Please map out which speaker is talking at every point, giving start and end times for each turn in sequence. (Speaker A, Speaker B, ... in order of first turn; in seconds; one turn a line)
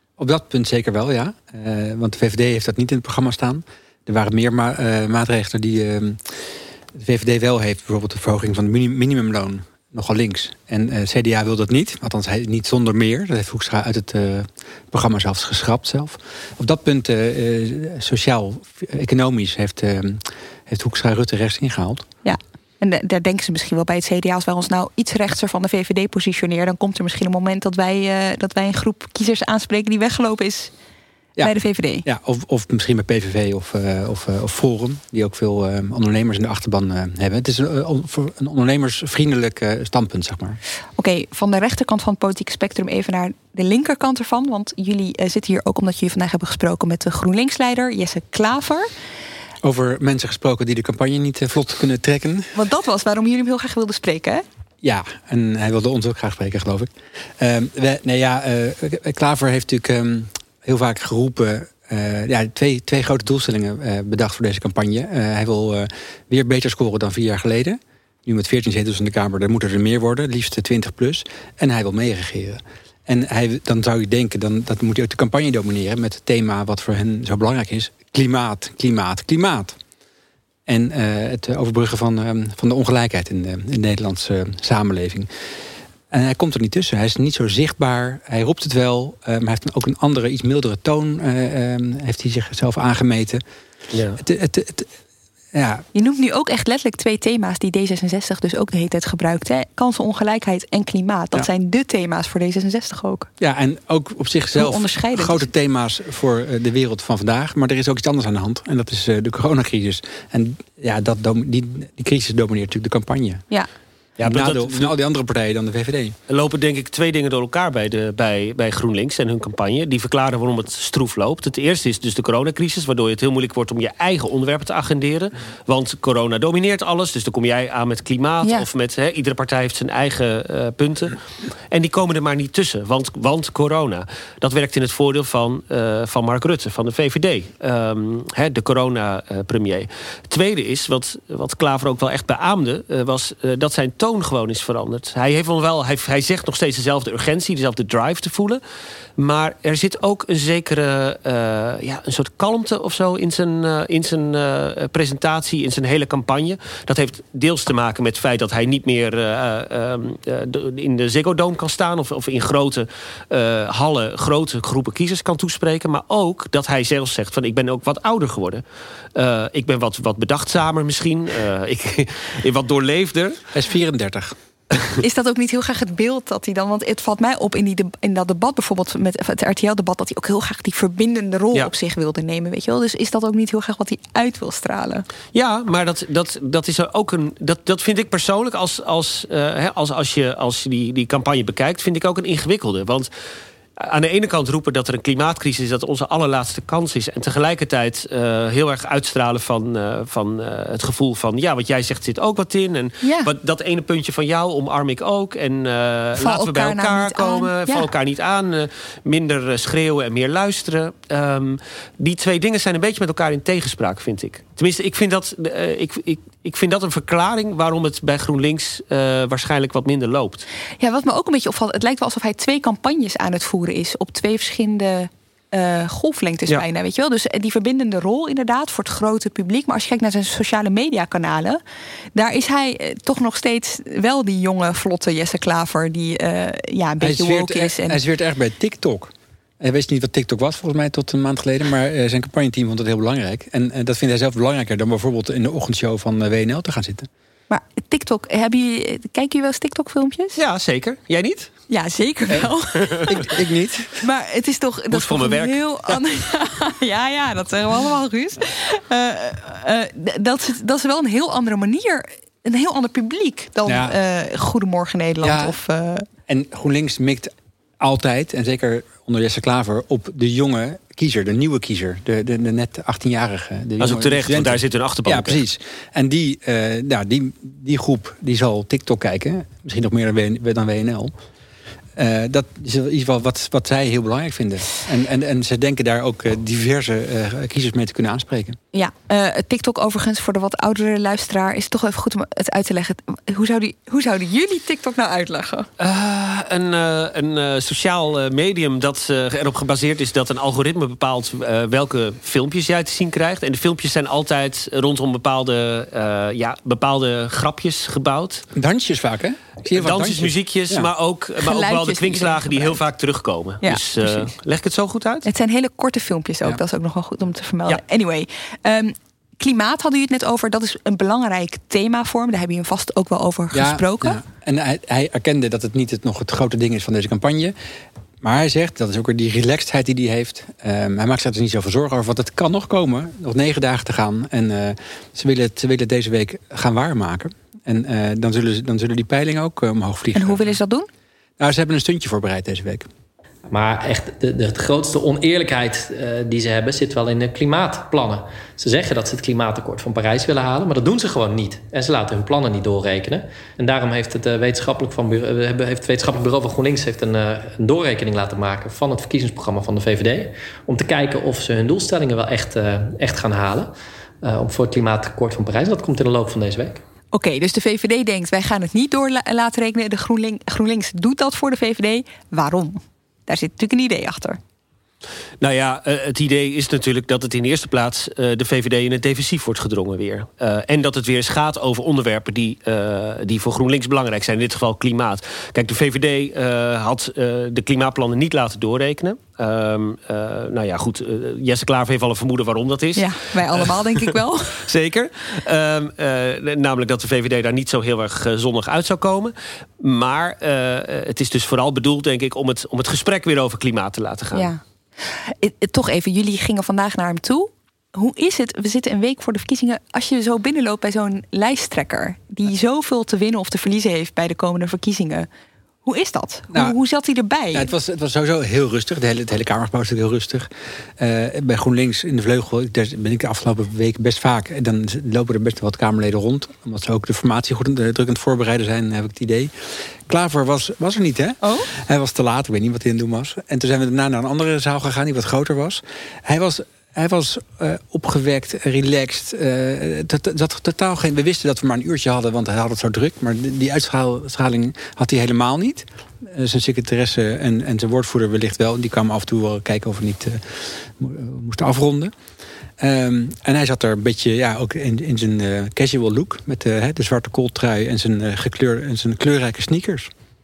Speaker A: 0.2-22.1
Speaker B: 22.2-30.7
Speaker A: 31.4-40.6
Speaker B: 31.4-32.0
Speaker B: 41.0-48.9
Speaker A: 49.6-52.5
Speaker B: 52.5-54.4
Speaker A: 54.8-79.8
Speaker A: 80.7-85.3
Speaker A: 86.1-93.4
Speaker C: 93.9-94.2
Speaker A: 94.2-94.9
Speaker A: 95.5-95.8
Speaker B: 95.9-103.3
Speaker A: 103.4-113.4
Speaker B: 104.5-105.5
Speaker C: 114.2-114.9
Speaker A: 114.2-116.2
Speaker C: 116.3-131.2
Speaker C: 131.7-148.6
Speaker C: 149.2-168.6
Speaker C: 169.1-173.4
Speaker A: 173.5-174.3
Speaker B: 175.0-185.1
Speaker C: 185.3-193.1
Speaker C: 193.8-220.4
Speaker B: 203.0-203.3
Speaker B: 206.2-207.9
Speaker B: 220.8-231.6
Speaker B: 232.1-238.0
Speaker A: 237.0-247.1
Speaker B: 247.5-250.4
Speaker C: 250.3-251.5
Speaker B: 251.7-253.2
Speaker C: 252.9-253.2
Speaker A: 253.1-253.9
Speaker B: 254.0-266.1
Speaker C: 254.9-256.0
Speaker A: 263.6-263.9
Speaker A: 265.2-265.6
Speaker A: 266.3-281.1
Speaker C: 273.8-275.4
Speaker A: 281.9-288.6
Speaker B: 288.7-295.7
Speaker C: 295.8-308.5
Speaker A: 308.5-310.9
Speaker C: 309.7-315.2
Speaker B: 311.4-312.8
Speaker B: 313.6-314.3
Speaker B: 315.2-324.2
Speaker A: 323.5-327.5
Speaker A: 328.2-340.5
Speaker B: 340.1-340.9
Speaker A: 341.4-342.9
Speaker D: 343.5-366.8
Speaker B: 367.1-374.4
Speaker C: 375.4-404.5
Speaker B: 392.9-394.6
Speaker B: 404.3-415.3
Speaker B: 415.8-417.7
Speaker A: 417.5-429.5
Speaker A: 430.1-452.1
Speaker B: 431.4-431.7
Speaker A: 452.8-460.1